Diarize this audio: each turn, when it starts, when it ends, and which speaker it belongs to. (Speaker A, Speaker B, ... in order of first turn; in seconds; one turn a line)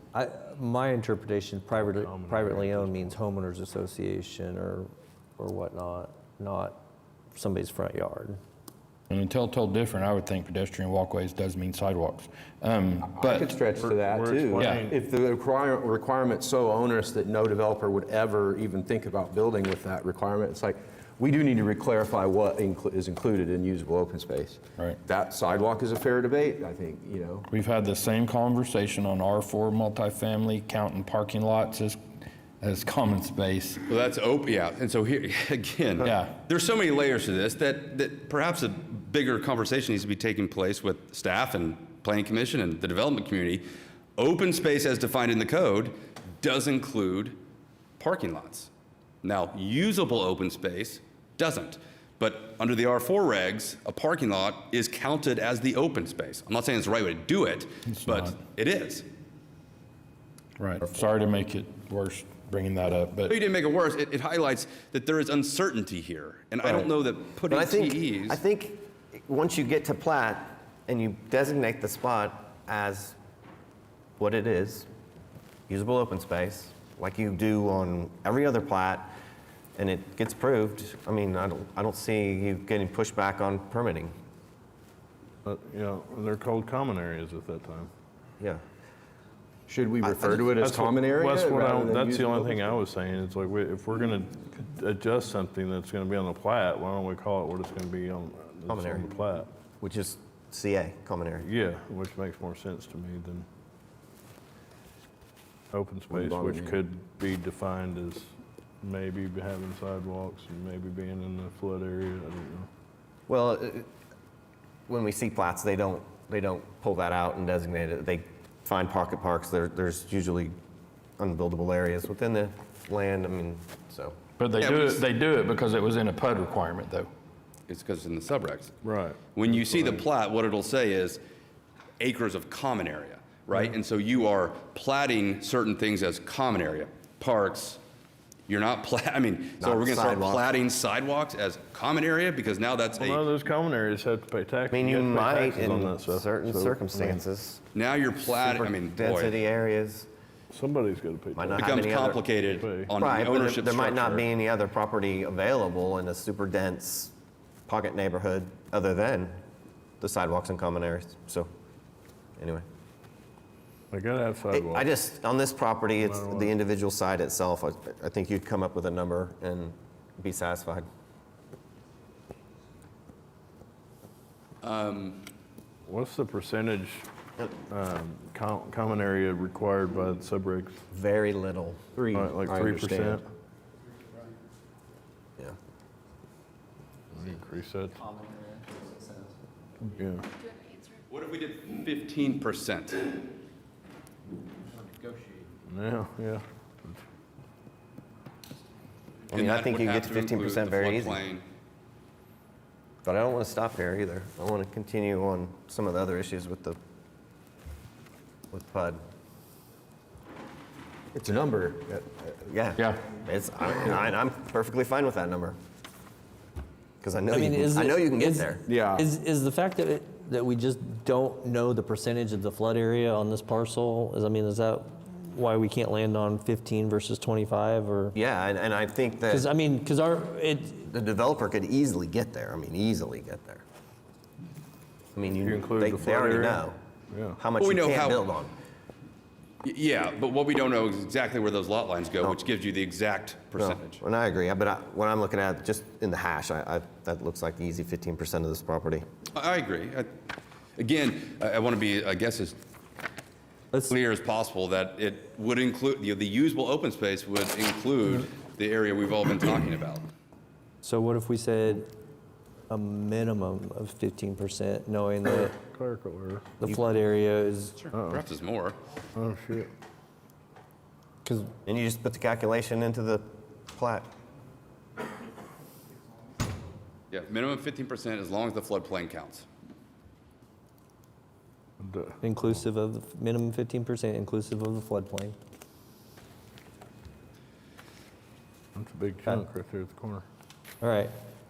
Speaker A: 0.1-6.8
Speaker B: 1.8-3.2
Speaker A: 7.3-8.4
Speaker C: 9.1-13.7
Speaker D: 13.0-27.5
Speaker B: 13.7-15.0
Speaker C: 14.6-14.8
Speaker C: 27.5-32.0
Speaker C: 32.6-33.8
Speaker E: 33.9-43.6
Speaker C: 36.0-36.4
Speaker E: 44.2-47.4
Speaker E: 48.0-48.7
Speaker E: 49.2-59.0
Speaker C: 57.9-58.4
Speaker C: 60.6-63.3
Speaker E: 63.3-68.4
Speaker F: 66.6-66.9
Speaker F: 67.5-73.2
Speaker F: 74.2-74.9
Speaker F: 75.7-79.1
Speaker F: 79.8-84.1
Speaker B: 85.4-87.9
Speaker D: 89.7-92.8
Speaker F: 90.0-90.5
Speaker B: 90.6-99.5
Speaker F: 98.7-99.1
Speaker F: 99.8-101.5
Speaker B: 101.4-103.5
Speaker B: 105.7-108.3
Speaker D: 106.1-106.8
Speaker B: 108.8-112.7
Speaker F: 113.3-113.9
Speaker F: 114.9-120.5
Speaker F: 121.2-124.2
Speaker C: 124.4-127.1
Speaker E: 124.5-125.0
Speaker E: 127.7-128.7
Speaker B: 128.8-129.3
Speaker E: 129.3-131.2
Speaker E: 132.0-137.8
Speaker E: 138.5-143.3
Speaker F: 139.6-140.5
Speaker B: 143.0-147.2
Speaker F: 144.7-147.6
Speaker E: 147.7-149.4
Speaker F: 148.4-150.1
Speaker B: 150.5-151.8
Speaker F: 151.3-152.2
Speaker E: 151.6-154.3
Speaker B: 152.4-152.9
Speaker F: 152.9-157.1
Speaker F: 157.7-159.3
Speaker F: 160.0-161.5
Speaker F: 162.4-162.6
Speaker B: 163.9-164.9
Speaker F: 164.5-170.8
Speaker B: 166.0-166.5
Speaker E: 174.6-175.3
Speaker B: 175.8-180.8
Speaker F: 180.9-181.8
Speaker D: 181.9-183.2
Speaker B: 182.1-183.2
Speaker B: 187.1-188.0
Speaker B: 189.8-190.3
Speaker E: 191.1-193.2
Speaker B: 195.7-197.0
Speaker E: 199.3-201.4
Speaker F: 199.3-201.2
Speaker F: 203.0-206.8
Speaker F: 208.5-209.0
Speaker D: 211.1-212.3
Speaker F: 212.5-215.6
Speaker F: 217.0-218.6
Speaker A: 217.3-228.2
Speaker D: 218.7-219.0
Speaker F: 228.1-229.5
Speaker A: 229.3-230.9
Speaker F: 230.9-233.6
Speaker F: 235.2-236.8
Speaker B: 235.4-237.4
Speaker F: 237.4-238.5
Speaker E: 237.6-238.2
Speaker E: 239.6-244.0
Speaker F: 243.6-249.1
Speaker E: 249.3-250.1
Speaker E: 250.8-252.6
Speaker E: 253.8-260.1
Speaker A: 260.8-261.9
Speaker A: 262.7-265.6
Speaker B: 265.2-266.5
Speaker A: 266.6-267.8
Speaker E: 267.8-268.8
Speaker B: 267.9-268.3
Speaker B: 269.1-269.7
Speaker A: 271.2-271.5
Speaker F: 271.6-274.1
Speaker E: 277.1-279.5
Speaker B: 281.8-282.2
Speaker A: 282.2-285.3
Speaker B: 288.7-290.2
Speaker A: 290.8-291.1